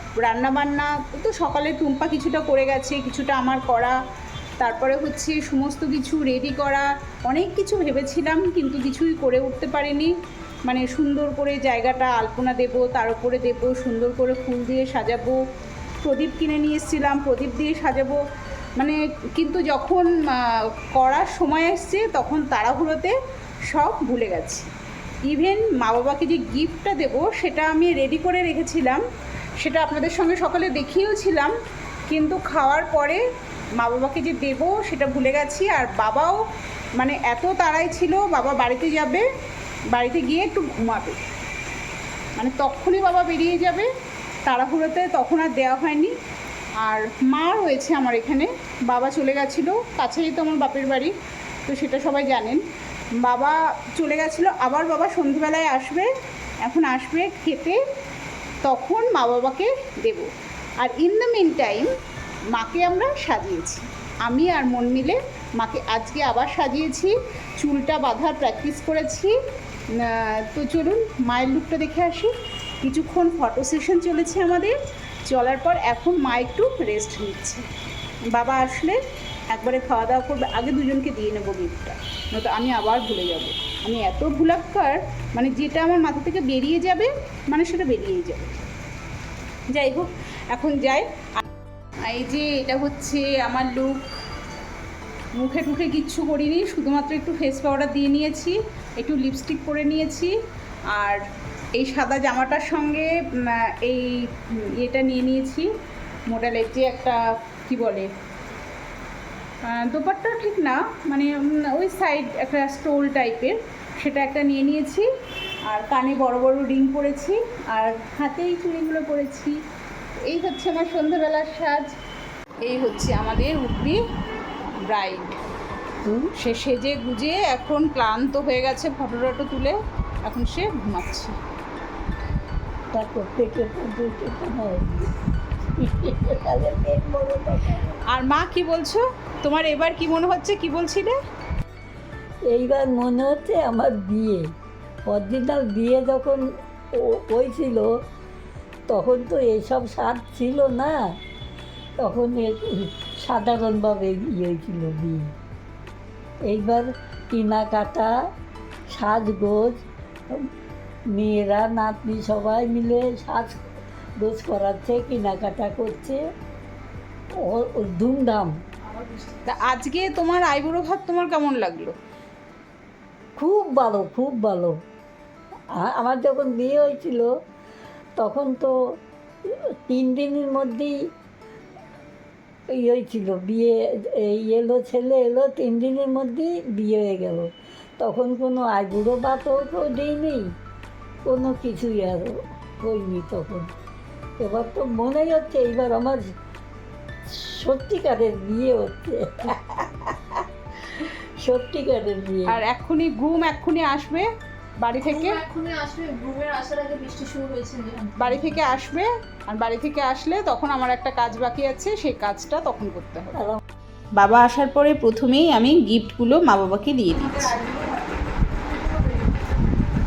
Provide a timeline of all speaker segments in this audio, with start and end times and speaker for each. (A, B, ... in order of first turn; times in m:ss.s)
0:00.2-0:04.0 A
0:04.6-0:10.1 A
0:10.7-0:15.4 A
0:16.0-0:18.2 A
0:18.8-0:23.1 A
0:23.7-0:24.7 A
0:25.3-0:29.0 A
0:29.6-0:31.5 A
0:32.1-0:33.2 A
0:33.8-0:36.4 A
0:37.0-0:39.2 A
0:39.9-0:41.2 A
0:42.4-0:43.9 A
0:44.4-0:46.1 A
0:46.8-0:51.1 A
0:51.6-0:52.6 A
0:53.2-0:56.1 A
0:56.6-0:57.8 A
0:58.6-1:01.9 A
1:02.5-1:09.3 A
1:10.0-1:14.8 A
1:15.3-1:17.6 A
1:18.3-1:19.0 A
1:19.5-1:28.6 A
1:29.7-1:31.1 A
1:32.1-1:34.0 A
1:35.4-1:40.3 A
1:40.9-1:41.2 A
1:41.8-1:45.7 A
1:46.3-1:48.1 A
1:49.6-1:55.1 A
1:55.7-1:59.6 A
2:00.3-2:01.9 A
2:02.6-2:04.0 A
2:04.9-2:05.4 A
2:06.4-2:11.4 A
2:12.9-2:15.1 B
2:15.8-2:18.0 B
2:18.1-2:21.2 A
2:22.5-2:24.4 B
2:25.1-2:26.4 B
2:27.0-2:27.9 B
2:28.9-2:31.0 B
2:32.0-2:35.3 B
2:36.5-2:38.1 B
2:38.9-2:40.4 B
2:41.1-2:43.6 B
2:44.2-2:46.2 B
2:47.4-2:48.5 B
2:49.4-2:51.9 A
2:53.4-2:54.8 B
2:55.8-2:57.3 B
2:58.2-2:58.7 B
2:59.5-3:00.9 B
3:02.7-3:10.4 B
3:11.2-3:13.7 B
3:14.4-3:16.3 B
3:17.3-3:22.6 B
3:22.5-3:24.2 A
3:24.8-3:25.4 A
3:25.0-3:28.7 C
3:28.2-3:33.4 A
3:33.3-3:33.6 B
3:34.2-3:38.1 A
3:37.4-3:38.0 C